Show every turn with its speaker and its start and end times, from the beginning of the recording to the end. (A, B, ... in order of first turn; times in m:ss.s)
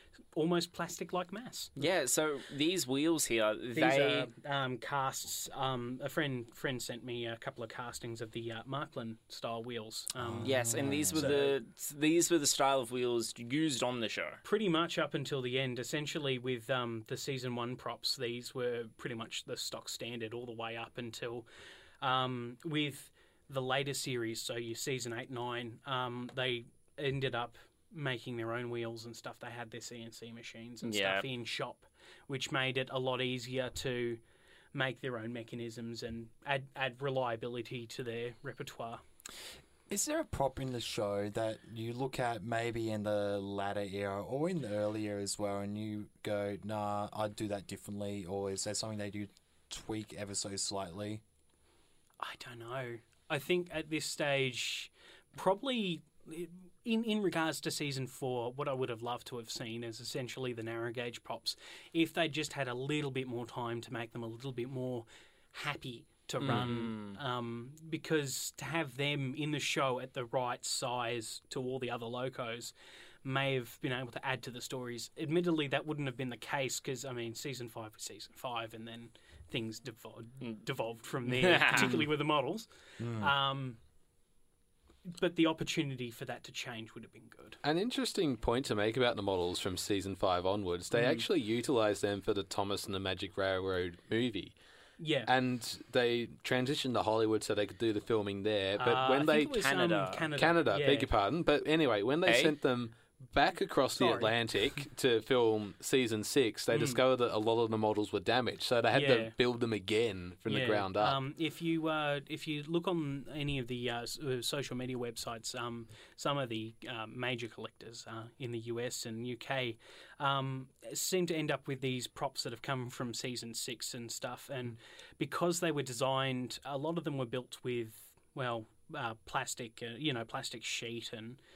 0:00.3-0:01.7 A
0:01.8-0:04.3 B
0:03.7-0:11.6 A
0:10.2-0:11.3 C
0:10.4-0:14.4 B
0:14.4-0:21.4 A
0:22.0-0:34.2 A
0:30.8-0:31.2 B
0:34.7-0:39.0 A
0:39.9-0:51.2 C
0:52.2-1:12.7 A
1:06.4-1:07.2 B
1:13.2-1:23.8 A
1:21.2-1:22.0 B
1:23.0-1:23.3 C
1:25.1-1:27.6 A
1:27.6-1:34.6 D
1:30.9-1:31.2 A
1:35.0-1:35.3 A
1:35.2-1:39.6 D
1:38.8-1:41.1 A
1:39.4-1:40.3 B
1:40.4-1:51.2 D
1:42.2-1:42.5 B
1:44.0-1:44.3 A
1:46.7-1:47.0 A
1:48.9-1:49.3 A
1:50.5-2:11.4 A